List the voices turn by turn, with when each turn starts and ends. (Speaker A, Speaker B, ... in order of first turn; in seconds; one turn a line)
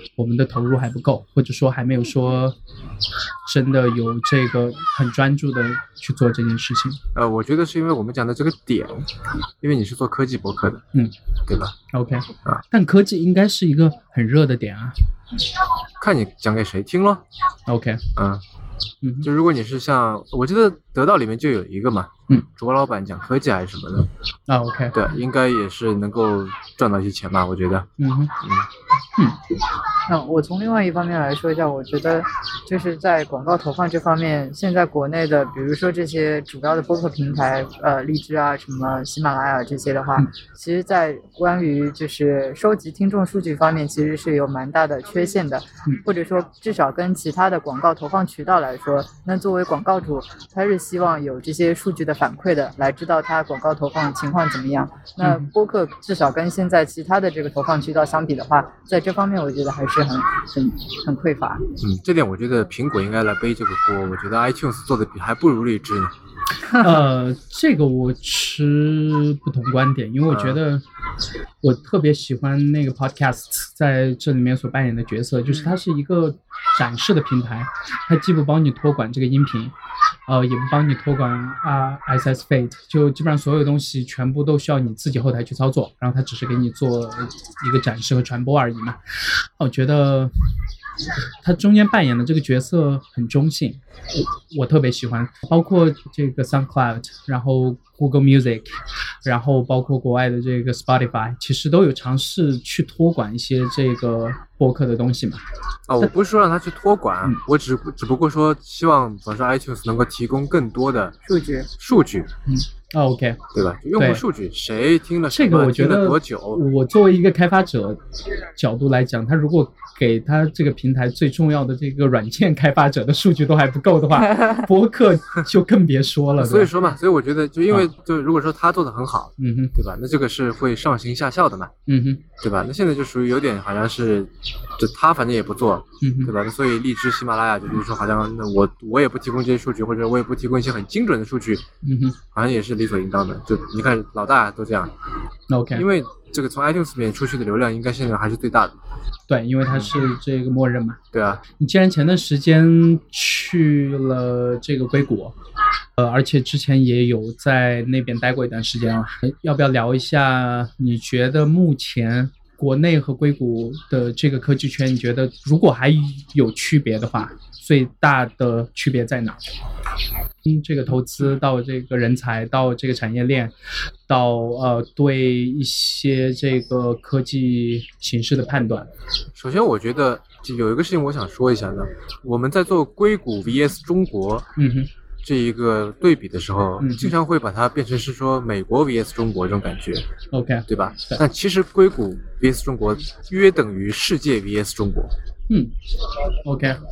Speaker A: 0.2-2.6
Speaker A: 3.5-7.0
Speaker B: 7.2-9.1
Speaker B: 9.6-10.8
Speaker B: 11.5-11.8
Speaker A: 11.9-14.9
Speaker B: 16.0-17.2
Speaker A: 17.7-18.1
Speaker B: 18.2-18.4
Speaker A: 19.0-19.3
Speaker B: 19.2-24.1
Speaker A: 24.5-25.0
Speaker B: 24.9-27.9
Speaker A: 28.0-28.3
Speaker B: 28.4-28.7
Speaker C: 30.1-61.7
Speaker A: 55.2-55.5
Speaker B: 61.8-66.1
Speaker A: 66.7-70.8
Speaker B: 70.3-70.6
Speaker A: 71.6-79.7
Speaker A: 80.3-89.0
Speaker A: 89.6-90.3
Speaker A: 91.4-93.8
Speaker A: 94.5-105.4
Speaker B: 105.9-111.2
Speaker C: 111.3-111.7
Speaker B: 111.8-112.3
Speaker A: 112.5-113.4
Speaker B: 113.5-116.6
Speaker A: 114.0-114.2
Speaker A: 115.3-118.0
Speaker A: 118.6-126.7
Speaker B: 126.4-131.7
Speaker A: 129.4-129.8
Speaker A: 131.9-132.2
Speaker B: 132.4-141.7
Speaker A: 136.0-136.3
Speaker A: 141.8-142.2
Speaker B: 142.3-144.9
Speaker A: 145.5-145.9
Speaker B: 145.7-148.8
Speaker A: 149.3-151.0
Speaker B: 151.1-151.4
Speaker A: 151.6-155.3
Speaker A: 156.0-169.4
Speaker A: 170.4-173.5
Speaker A: 174.1-178.9
Speaker B: 179.3-184.5
Speaker A: 184.6-184.9
Speaker B: 185.2-190.1
Speaker A: 186.8-187.2
Speaker A: 190.3-191.2
Speaker B: 190.7-195.1
Speaker A: 196.4-196.8